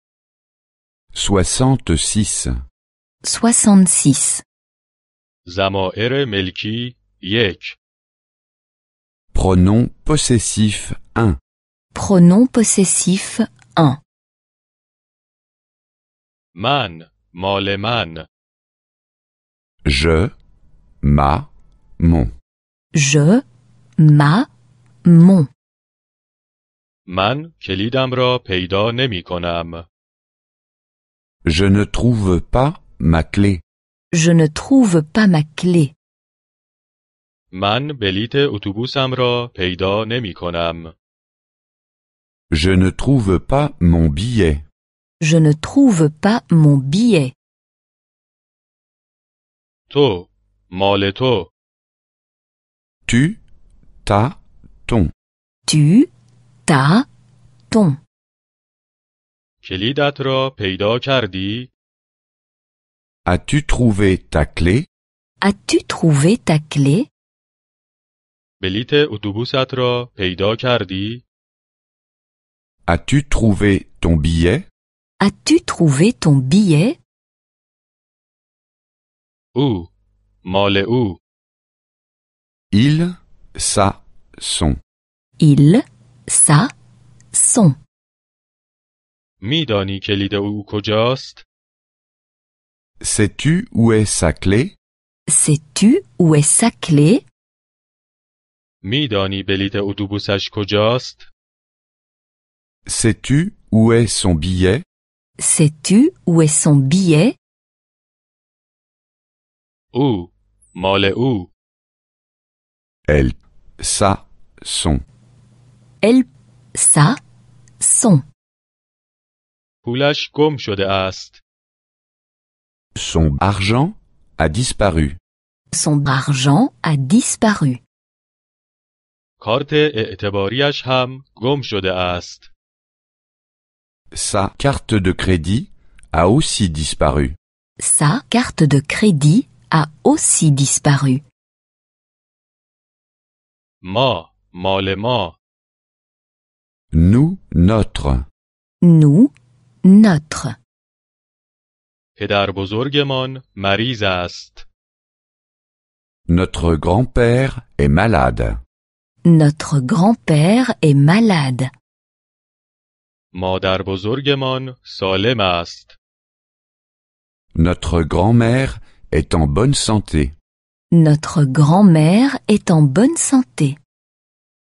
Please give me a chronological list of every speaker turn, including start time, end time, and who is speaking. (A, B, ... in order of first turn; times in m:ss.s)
0:01.2-0:02.5 A
0:03.2-0:04.4 B
0:05.5-0:07.8 C
0:09.3-0:11.4 A
0:12.0-0:14.0 B
0:16.6-0:18.3 C
0:19.8-0:20.3 A
0:21.0-0:22.3 A
0:22.9-0:23.4 B
0:24.0-0:24.5 B
0:25.0-0:25.5 B
0:27.1-0:29.9 C
0:31.5-0:33.6 A
0:34.1-0:35.9 B
0:37.5-0:40.9 C
0:42.5-0:44.6 A
0:45.2-0:47.3 B
0:49.9-0:51.5 C
0:53.1-0:53.4 A
0:54.0-0:55.1 A
0:55.7-0:56.1 B
0:56.7-0:57.1 B
0:57.7-0:58.0 B
0:59.6-1:01.7 C
1:03.3-1:04.9 A
1:05.4-1:07.1 B
1:08.6-1:11.2 C
1:12.9-1:14.7 A
1:15.2-1:17.0 B
1:19.6-1:19.9 C
1:20.4-1:21.2 C
1:22.7-1:24.8 A
1:25.4-1:26.7 B
1:27.3-1:27.8 B
1:29.4-1:31.4 C
1:33.0-1:34.8 A
1:35.3-1:37.2 B
1:38.8-1:41.3 C
1:42.9-1:44.8 A
1:45.4-1:47.4 B
1:49.9-1:51.5 C
1:53.1-1:55.0 A
1:56.0-1:57.2 B
1:57.8-1:58.2 B
1:59.8-2:01.4 C
2:03.0-2:05.2 A
2:05.7-2:07.8 B
2:09.4-2:12.5 C
2:14.1-2:17.4 A
2:17.8-2:21.2 B
2:23.8-2:25.4 C
2:26.9-2:28.2 A
2:28.8-2:29.3 B
2:29.8-2:30.6 B
2:32.2-2:34.7 C
2:36.3-2:38.6 A
2:39.2-2:41.7 B
2:43.3-2:46.0 C
2:47.6-2:50.4 A
2:50.9-2:53.8 B